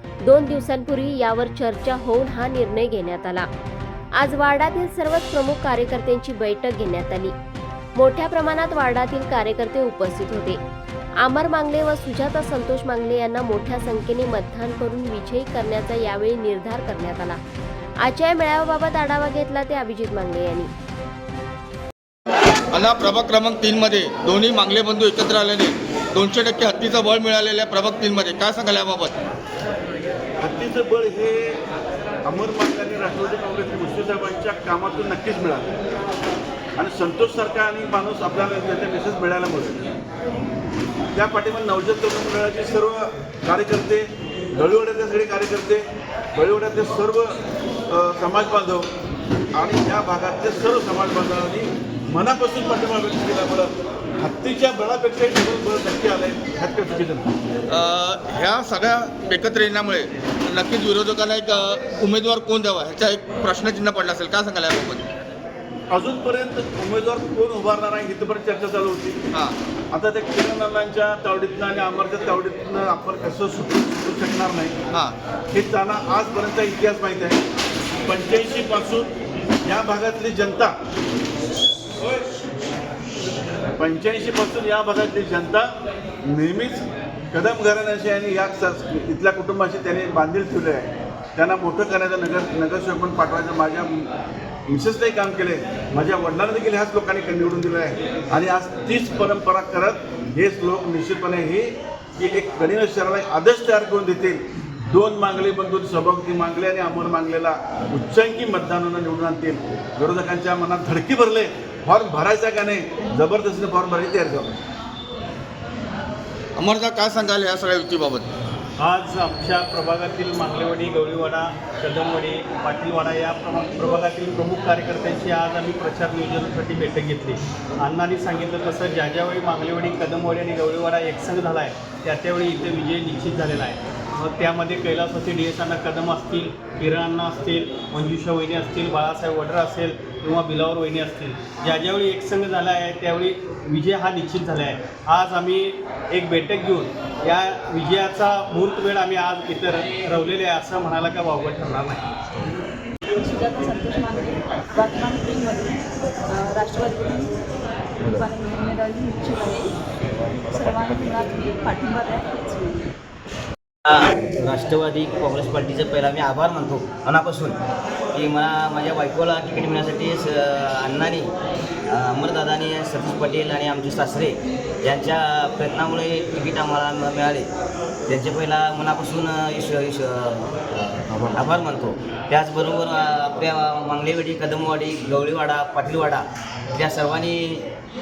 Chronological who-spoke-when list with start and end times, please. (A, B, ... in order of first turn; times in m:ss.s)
0:00.2-0:03.5 A
0:04.2-0:07.3 A
0:08.0-0:10.6 A
0:11.2-0:17.4 A
0:18.0-0:20.7 A
0:22.7-0:29.2 B
0:30.4-0:31.6 C
0:32.2-0:35.7 C
0:36.8-0:39.8 C
0:41.2-0:45.8 C
0:46.4-0:47.4 C
0:47.9-0:48.9 C
0:49.5-0:57.3 C
0:57.7-1:05.1 B
1:05.9-1:09.2 C
1:09.9-1:14.8 C
1:15.5-1:17.4 C
1:18.1-1:19.1 C
1:19.6-1:20.7 C
1:23.7-1:25.7 C
1:26.2-1:34.1 C
1:34.7-1:54.5 C
1:56.6-1:58.3 B
1:58.8-2:32.0 D
2:33.2-2:37.4 E
2:38.0-2:39.8 E
2:40.5-2:42.9 E
2:43.9-2:47.6 F
2:48.1-2:51.3 F
2:51.9-2:57.5 F
2:58.1-3:07.7 F